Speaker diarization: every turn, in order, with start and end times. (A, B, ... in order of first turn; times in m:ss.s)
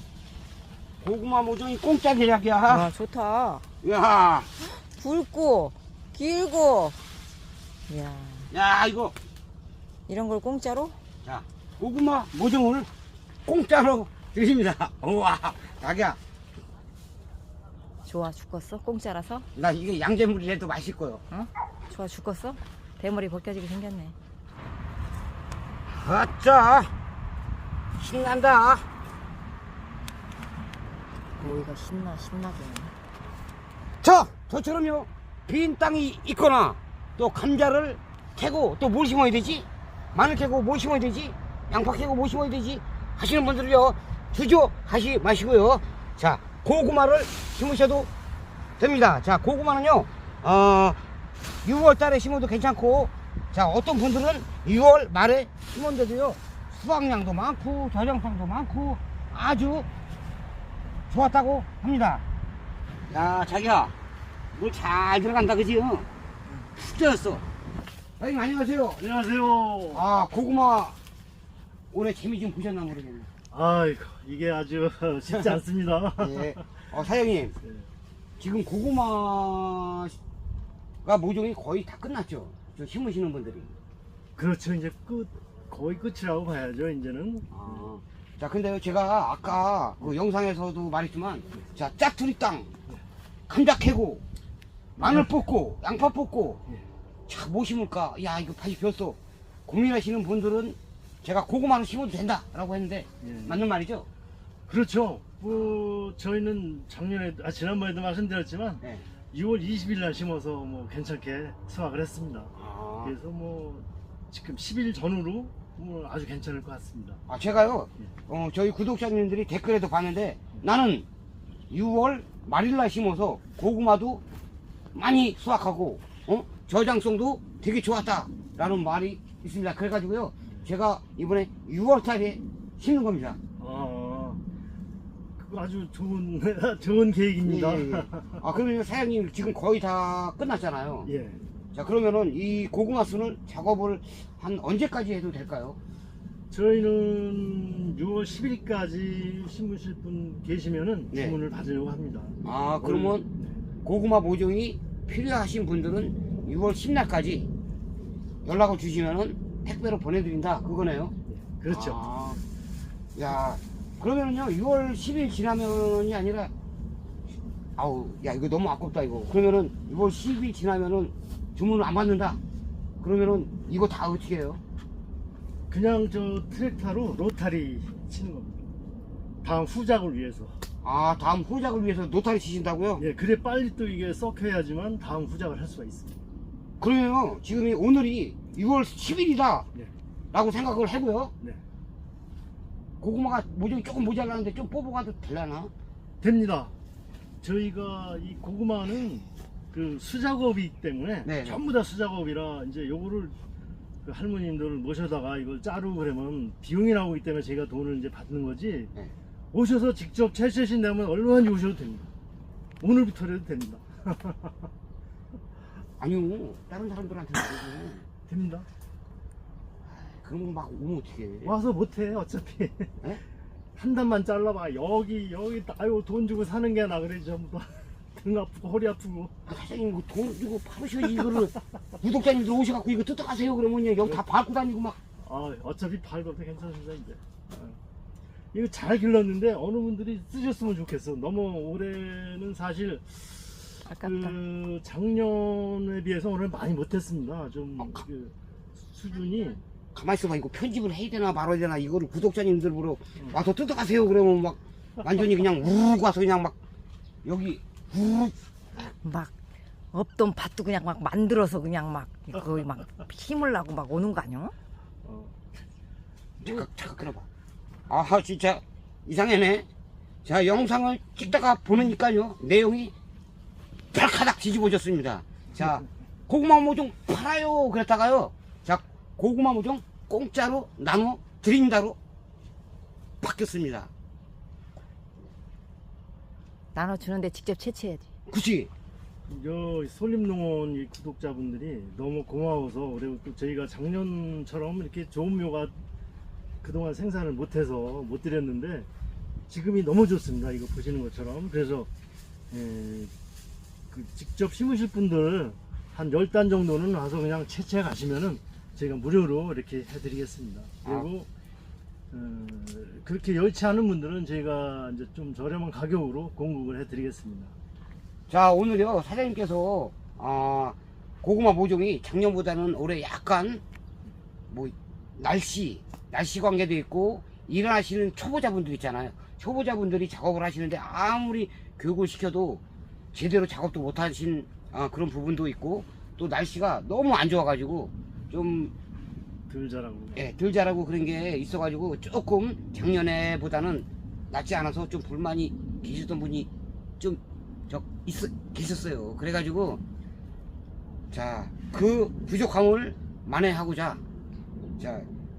0:01.0-0:02.9 A
0:02.7-0:03.6 B
0:03.8-0:04.5 A
0:04.6-0:07.0 B
0:07.9-0:08.5 B
0:08.5-0:09.2 A
0:10.1-0:11.0 B
0:11.2-0:12.9 A
0:13.5-0:16.2 A
0:18.1-0:19.4 B
0:19.6-0:21.2 A
0:21.3-0:24.2 B
0:25.9-0:26.9 A
0:28.0-0:28.9 A
0:31.4-0:32.9 B
0:34.0-0:48.1 A
0:48.8-0:51.0 A
0:51.6-0:59.9 A
1:01.1-1:02.2 A
1:03.1-1:03.9 A
1:04.6-1:06.1 A
1:06.8-1:07.4 A
1:08.2-1:09.2 A
1:09.0-1:10.0 C
1:09.9-1:11.0 A
1:11.9-1:13.3 A
1:13.5-1:16.7 C
1:15.3-1:15.6 A
1:16.2-1:17.6 A
1:17.6-1:17.9 C
1:18.4-1:20.2 A
1:21.0-1:23.7 A
1:24.4-1:27.5 C
1:27.5-1:32.7 A
1:33.5-1:34.2 A
1:35.0-1:36.6 A
1:35.0-1:35.3 C
1:37.3-1:44.1 A
1:43.2-1:43.6 C
1:44.7-1:57.2 C
1:52.6-1:53.1 A
1:57.3-2:01.1 A
2:01.7-2:04.2 A
2:05.0-2:13.4 A
2:13.6-2:14.4 C
2:15.4-2:18.4 C
2:17.4-2:21.1 A
2:21.1-2:21.4 C
2:21.7-2:25.8 A
2:26.5-2:33.6 C
2:31.1-2:31.4 A
2:32.4-2:33.3 A
2:33.8-2:37.5 A
2:38.4-2:41.2 A
2:41.3-2:42.0 C
2:41.7-2:42.4 A
2:43.2-2:46.5 A
2:47.8-2:52.4 A
2:53.0-2:54.6 A
2:55.7-2:58.7 C
2:59.4-3:00.6 C
3:00.8-3:03.0 A
3:03.0-3:06.2 C
3:06.8-3:09.7 A
3:10.3-3:11.3 A
3:13.0-3:15.7 A
3:16.2-3:16.7 C
3:17.4-3:23.4 C
3:21.2-3:21.6 A
3:24.0-3:28.9 C
3:29.5-3:32.1 C
3:32.8-3:34.7 C
3:36.0-3:38.0 A
3:38.3-3:38.7 C
3:39.9-3:41.6 A
3:41.4-3:42.9 C
3:43.8-3:49.3 C
3:49.5-3:55.0 A
3:55.2-3:57.8 C
3:58.5-4:08.3 C
4:03.9-4:04.4 B
4:08.9-4:09.6 C
4:10.0-4:16.6 A
4:17.2-4:18.3 A
4:19.0-4:19.3 B
4:19.9-4:24.5 B
4:25.0-4:25.4 C
4:26.4-4:27.3 A
4:27.9-4:29.7 A
4:30.2-4:32.9 A
4:33.9-4:42.0 A
4:43.2-4:43.9 A
4:46.8-4:48.0 B
4:48.3-4:48.7 A
4:49.3-4:55.8 C
4:56.6-4:58.9 C
4:59.5-5:01.9 C
5:02.5-5:03.1 C
5:03.9-5:11.3 C
5:10.8-5:11.1 A
5:12.1-5:17.5 C
5:18.3-5:23.6 A
5:24.5-5:32.6 A
5:33.1-5:38.7 A
5:39.5-5:40.2 C
5:40.2-5:49.8 A
5:51.1-5:54.0 A
5:54.8-5:55.1 A